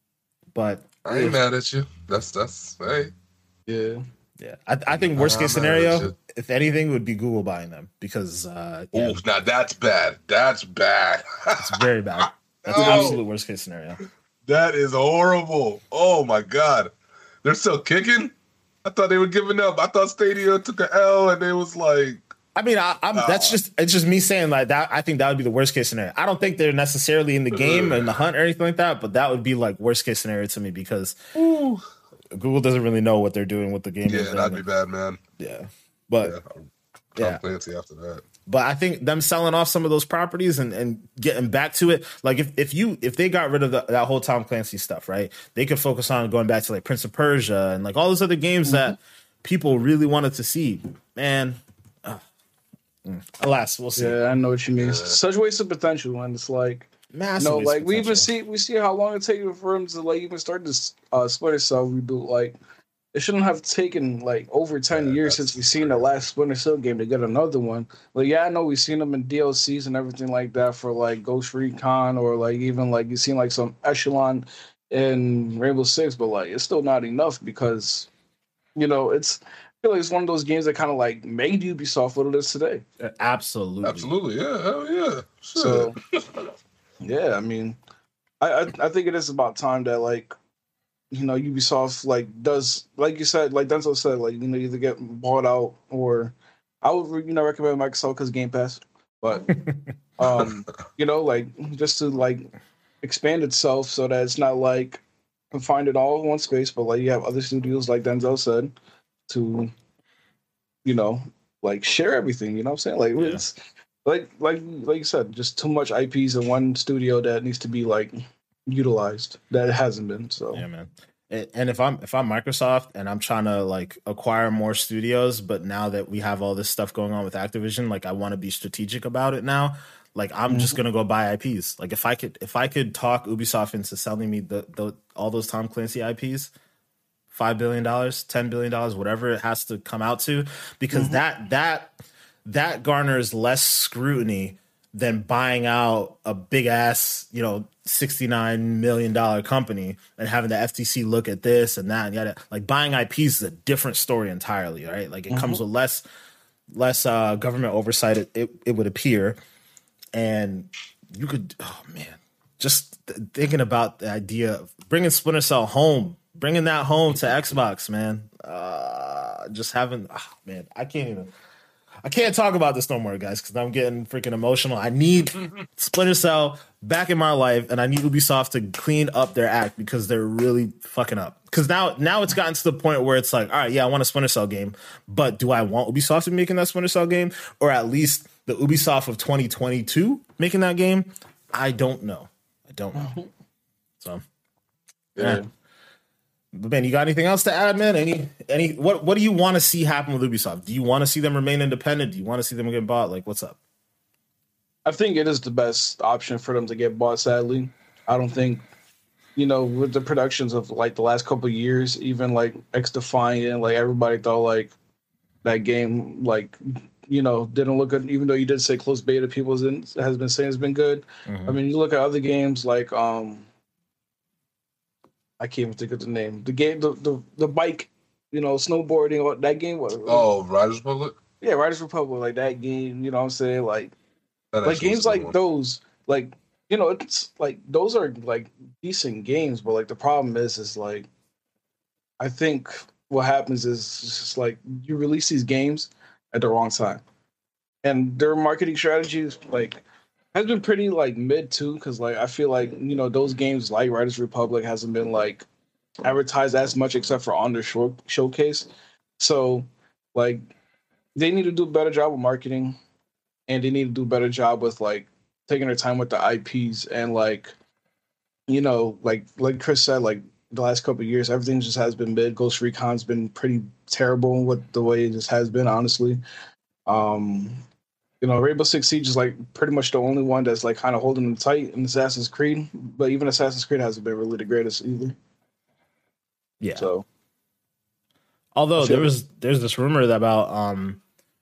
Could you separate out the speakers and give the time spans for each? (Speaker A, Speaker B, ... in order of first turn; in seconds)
Speaker A: 0.5-1.4, 4.4-9.2, 11.6-14.0, 22.5-31.2, 32.3-34.6, 35.4-36.4, 38.5-52.2, 53.0-54.2, 57.1-58.3, 83.0-84.1, 113.2-113.4, 120.5-136.5, 137.3-156.0, 156.7-159.4, 160.1-171.3, 172.0-193.2, 195.2-195.4, 196.5-203.6, 221.2-221.6, 286.6-286.9, 288.5-291.0
Speaker B: 1.0-3.1, 5.1-6.1, 8.9-13.2, 14.4-16.9, 17.4-18.3, 18.8-22.2, 23.1-23.6, 27.5-28.2, 31.4-31.8, 34.0-35.2, 36.2-38.2, 54.8-55.1, 64.9-66.0, 83.8-86.5, 230.1-231.2, 234.5-235.3
Speaker C: 3.7-4.0, 12.8-13.2, 54.0-56.9, 57.4-62.6, 63.1-78.1, 78.8-82.8, 85.5-86.0, 87.0-87.8, 88.4-90.3, 91.1-99.5, 100.2-102.5, 103.0-108.7, 109.3-109.7, 110.8-113.5, 114.0-118.2, 118.7-120.6, 130.5-130.8, 140.9-141.2, 155.3-155.6, 192.9-193.3, 195.2-195.5, 204.8-208.6, 209.3-214.7, 215.4-223.4, 225.4-230.3, 231.4-233.9, 234.6-241.1, 242.2-247.0, 247.8-255.4, 256.0-260.4, 261.1-262.8, 263.5-267.5, 268.5-276.2, 276.9-277.6, 278.2-285.1, 286.8-287.0, 288.8-289.1